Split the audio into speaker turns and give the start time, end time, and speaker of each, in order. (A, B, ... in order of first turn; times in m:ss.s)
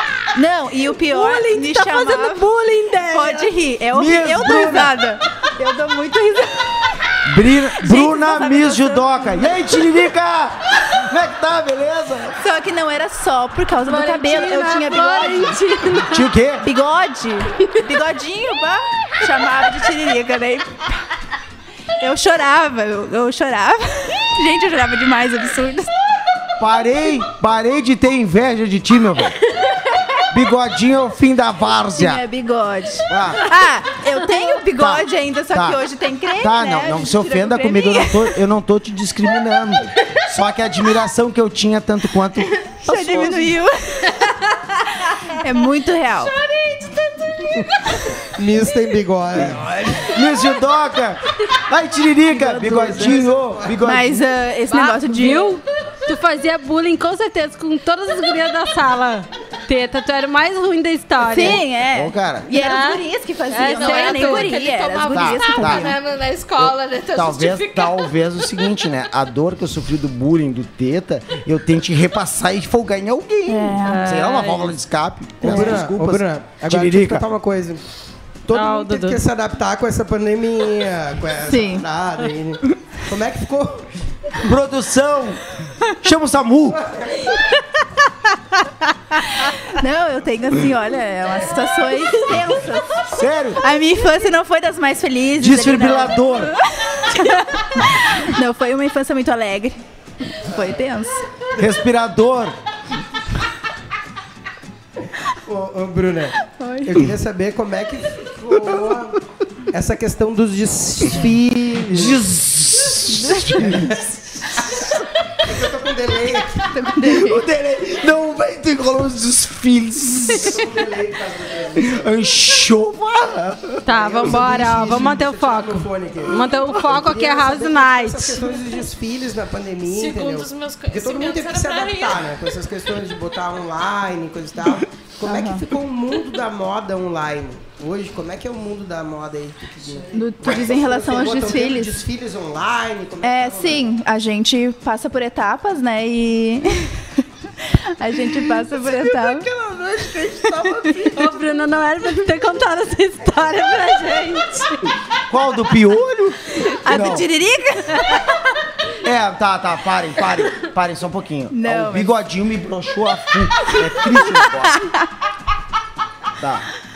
0:00.3-0:02.5 A
0:01.0-0:03.5 B
0:03.0-0:06.9 A
0:03.9-0:05.0 C
0:07.2-0:12.4 C
0:07.5-0:09.7 A
0:12.4-0:15.6 A
0:13.8-0:16.3 B
0:16.0-0:16.7 C
0:16.6-0:20.9 A
0:22.0-0:25.9 A
0:26.6-0:29.4 C
0:30.3-0:32.2 C
0:31.9-0:38.4 A
0:33.1-0:33.5 C
0:34.8-0:35.8 C
0:36.4-0:43.5 C
0:42.6-0:44.3 A
0:44.9-0:46.3 A
0:46.1-0:47.7 D
0:48.2-0:50.2 E
0:49.5-0:54.2 C
0:52.3-0:53.2 A
0:52.8-0:53.8 E
0:53.8-0:55.6 A
0:54.7-1:01.6 B
1:01.2-1:05.9 A
1:01.3-1:02.5 C
1:02.5-1:04.5 B
1:03.6-1:08.6 D
1:05.1-1:05.9 C
1:06.6-1:17.2 C
1:13.5-1:14.1 A
1:13.8-1:14.7 B
1:15.4-1:17.8 E
1:15.4-1:15.7 A
1:18.5-1:24.3 E
1:18.5-1:19.2 B
1:21.5-1:21.8 A
1:24.4-1:26.9 C
1:26.9-1:27.1 E
1:29.3-1:41.3 A
1:33.0-1:33.6 C
1:35.4-1:36.6 C
1:41.5-1:42.6 C
1:45.4-1:49.2 E
1:46.6-1:47.0 A
1:48.5-1:49.1 C
1:49.7-1:52.2 E
1:51.8-1:55.0 C
1:53.4-1:54.8 E
1:55.4-1:56.7 E
1:56.7-1:57.4 A
1:56.9-2:00.8 C
2:00.3-2:02.0 E
2:01.7-2:03.9 C
2:03.8-2:08.6 B
2:03.9-2:23.9 E
2:09.8-2:12.2 D
2:15.2-2:15.6 A
2:20.1-2:22.0 A
2:23.2-2:29.5 A
2:28.6-2:31.4 E
2:30.6-2:30.9 A
2:31.1-2:34.8 B
2:35.2-2:37.3 C
2:36.6-2:38.3 A
2:39.0-2:44.9 C
2:41.5-2:42.2 A
2:43.6-2:45.1 A
2:46.4-2:46.7 C